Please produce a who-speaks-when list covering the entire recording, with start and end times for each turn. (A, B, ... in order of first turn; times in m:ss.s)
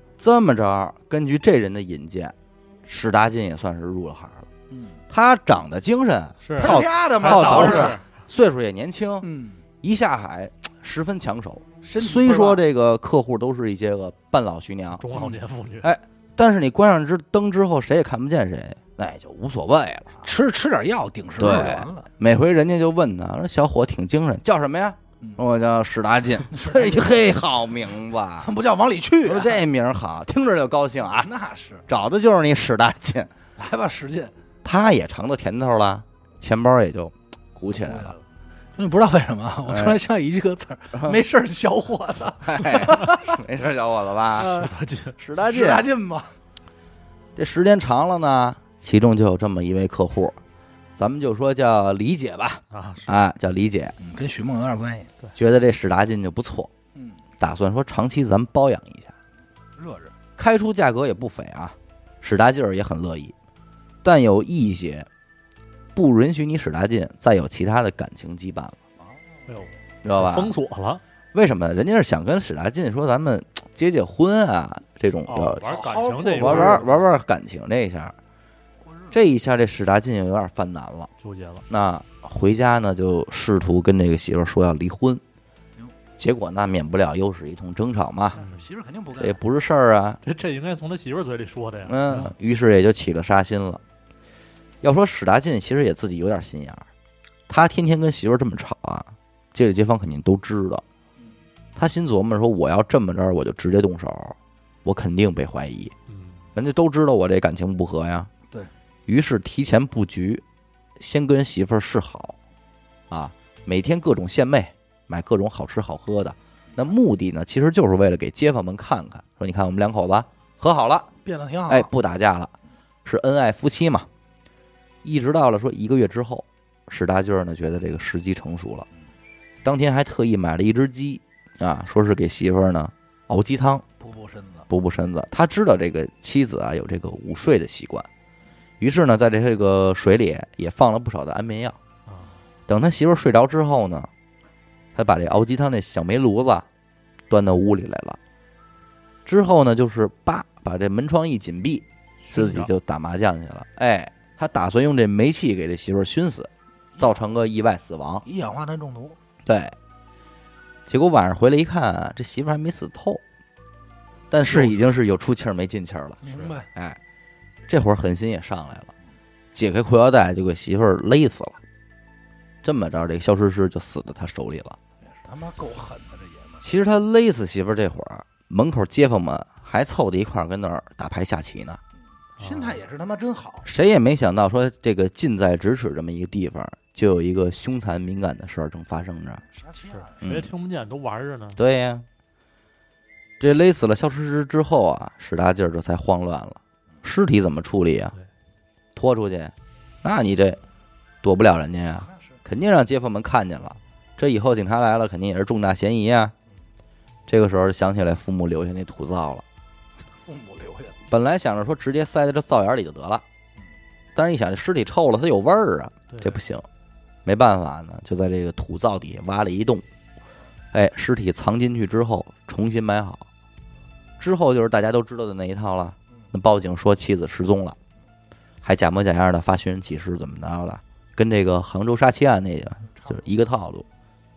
0:00.2-0:04.5 A
0:04.7-0:05.0 B
0:05.1-0:09.3 A
0:06.4-0:08.0 C
0:06.6-0:08.0 B
0:09.2-0:09.6 B
0:09.8-0:15.0 A
0:11.8-0:12.6 B
0:15.0-0:15.9 C
0:15.1-0:15.4 B
0:15.8-0:20.3 A
0:20.2-0:22.1 B
0:21.4-0:28.5 A
0:26.5-0:27.4 B
0:28.4-0:29.6 B
0:29.2-0:31.3 A
0:31.1-0:31.8 B
0:31.9-0:33.3 A
0:33.6-0:34.3 B
0:34.6-0:38.2 A
0:37.8-0:38.2 B
0:38.8-0:43.4 B
0:39.7-0:40.0 A
0:42.4-0:44.6 A
0:44.4-0:44.8 B
0:44.4-0:45.1 C
0:45.2-0:45.9 A
0:45.4-0:46.3 B
0:47.4-0:50.4 A
0:51.0-0:53.9 A
0:52.7-0:53.2 C
0:54.0-0:55.1 B
0:55.3-0:56.7 A
0:57.4-0:59.1 A
0:59.8-1:00.1 B
1:00.4-1:03.3 A
1:04.0-1:05.1 A
1:05.9-1:08.8 A
1:09.0-1:09.4 B
1:09.5-1:11.0 C
1:10.0-1:10.5 A
1:11.3-1:15.7 A
1:15.3-1:16.9 C
1:15.6-1:17.0 B
1:16.3-1:18.2 A
1:18.8-1:19.1 B
1:19.1-1:21.1 A
1:21.2-1:21.6 C
1:21.7-1:25.2 A
1:26.2-1:28.4 A
1:28.3-1:29.4 B
1:29.2-1:30.2 A
1:30.2-1:32.3 C
1:31.9-1:33.8 A
1:34.8-1:36.8 A
1:37.5-1:40.8 A
1:41.8-1:45.9 A
1:46.1-1:46.4 C
1:46.6-1:48.3 A
1:49.1-1:50.4 A
1:51.0-1:52.4 A
1:53.1-2:01.1 A
2:01.2-2:01.9 B
2:01.7-2:02.5 A
2:03.0-2:04.1 A
2:05.0-2:08.9 A
2:09.6-2:13.8 A
2:14.0-2:14.7 B
2:14.7-2:18.1 A
2:18.8-2:21.8 A
2:22.7-2:24.1 A
2:24.9-2:26.6 A
2:27.3-2:28.2 A
2:29.2-2:38.2 A
2:32.2-2:32.7 C
2:38.2-2:39.2 B
2:39.4-2:39.7 A
2:40.9-2:43.2 A
2:44.3-2:47.0 A
2:44.5-2:44.8 B
2:46.2-2:46.7 B
2:47.7-2:48.9 A
2:49.5-2:51.6 A
2:52.6-2:54.8 A
2:55.1-2:56.6 B
2:56.6-3:01.8 A
3:02.4-3:03.7 B
3:02.4-3:02.8 C
3:03.6-3:09.4 A
3:09.5-3:10.2 B
3:10.1-3:11.6 C
3:10.2-3:10.5 A
3:11.6-3:12.0 A
3:13.4-3:18.1 A
3:19.0-3:20.6 A
3:21.2-3:26.3 A
3:27.3-3:29.4 A
3:30.1-3:31.0 B
3:31.1-3:33.2 A
3:34.1-3:36.6 A
3:37.2-3:39.8 A
3:40.7-3:43.2 A
3:44.2-3:47.8 A
3:48.6-3:53.8 A